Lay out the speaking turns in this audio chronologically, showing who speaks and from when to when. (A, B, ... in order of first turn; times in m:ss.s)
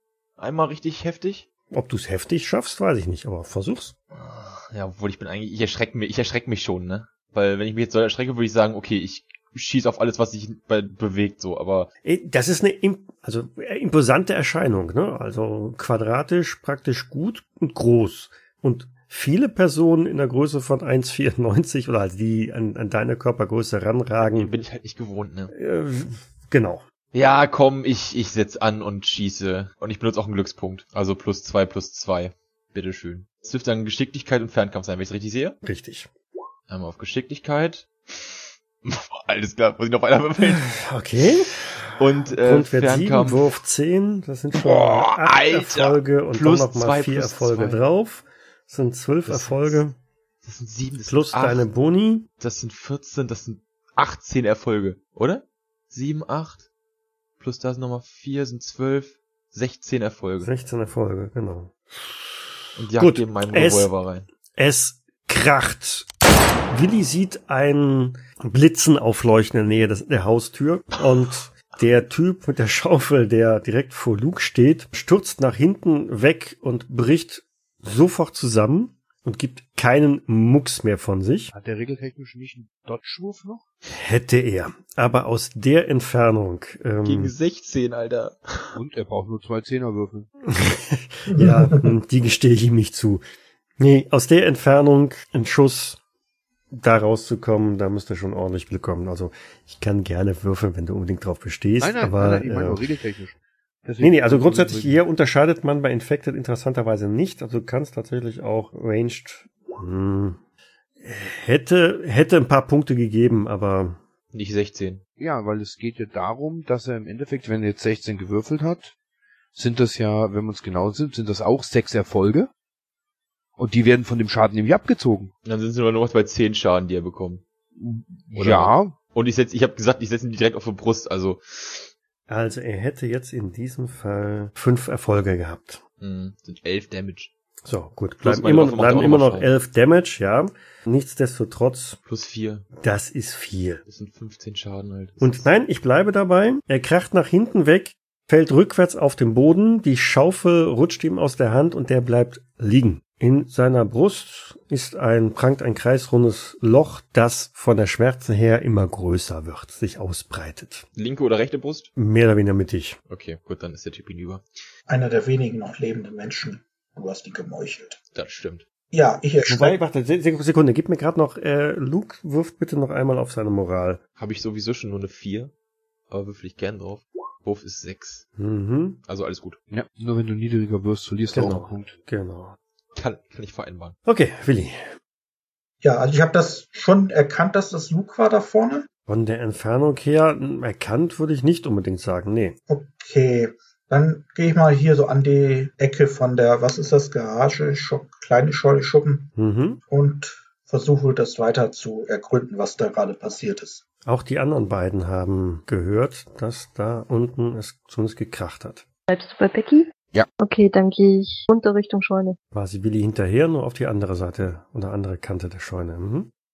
0:00.4-0:01.5 A
0:01.7-0:03.9 B
0:04.1-0:11.9 A
0:12.0-0:24.5 B
0:24.3-0:25.5 A
0:25.5-0:26.8 B
0:27.1-0:35.6 A
0:35.6-0:36.1 B
0:36.7-0:40.7 A
0:40.4-0:50.0 B
0:42.0-0:43.5 A
0:44.6-0:47.8 A
0:49.2-0:49.8 A
0:50.4-0:51.7 A
0:51.1-0:52.3 B
0:52.4-0:56.7 A
0:57.4-1:00.5 A
1:00.4-1:03.9 B
1:02.8-1:04.3 A
1:04.6-1:06.1 B
1:06.7-1:21.5 B
1:21.5-1:23.7 C
1:23.9-1:27.3 B
1:27.0-1:28.8 A
1:28.7-1:30.3 C
1:30.5-1:33.2 B
1:31.3-1:31.8 D
1:33.8-1:36.0 B
1:36.7-1:42.8 B
1:41.8-1:45.0 C
1:44.0-1:50.4 B
1:51.0-1:54.0 B
1:54.3-1:55.0 A
1:55.2-1:58.9 C
1:59.6-2:02.5 C
2:03.6-2:05.3 C
2:05.4-2:11.9 A
2:08.3-2:08.9 C
2:12.3-2:15.8 B
2:16.0-2:17.3 A
2:17.6-2:22.0 B
2:18.2-2:19.5 A
2:22.1-2:22.7 A
2:22.8-2:23.8 B
2:23.9-2:25.5 A
2:25.2-2:40.9 B
2:41.0-2:41.9 A
2:42.0-2:43.0 B
2:43.1-2:44.4 A
2:44.9-2:48.0 D
2:48.2-2:48.6 A
2:48.9-2:49.8 D
2:49.5-2:54.0 B
2:54.2-2:55.5 A
2:56.1-2:58.3 A
2:58.4-2:59.0 B
2:59.1-2:59.6 A
2:59.7-3:01.9 C
3:01.3-3:02.6 B
3:03.0-3:04.0 A
3:04.1-3:04.9 B
3:05.8-3:08.9 D
3:09.1-3:12.6 B
3:12.7-3:19.3 D
3:19.4-3:19.8 B
3:19.9-3:23.8 D
3:24.0-3:28.8 B
3:29.1-3:29.9 E
3:30.4-3:32.4 E
3:32.5-3:36.3 B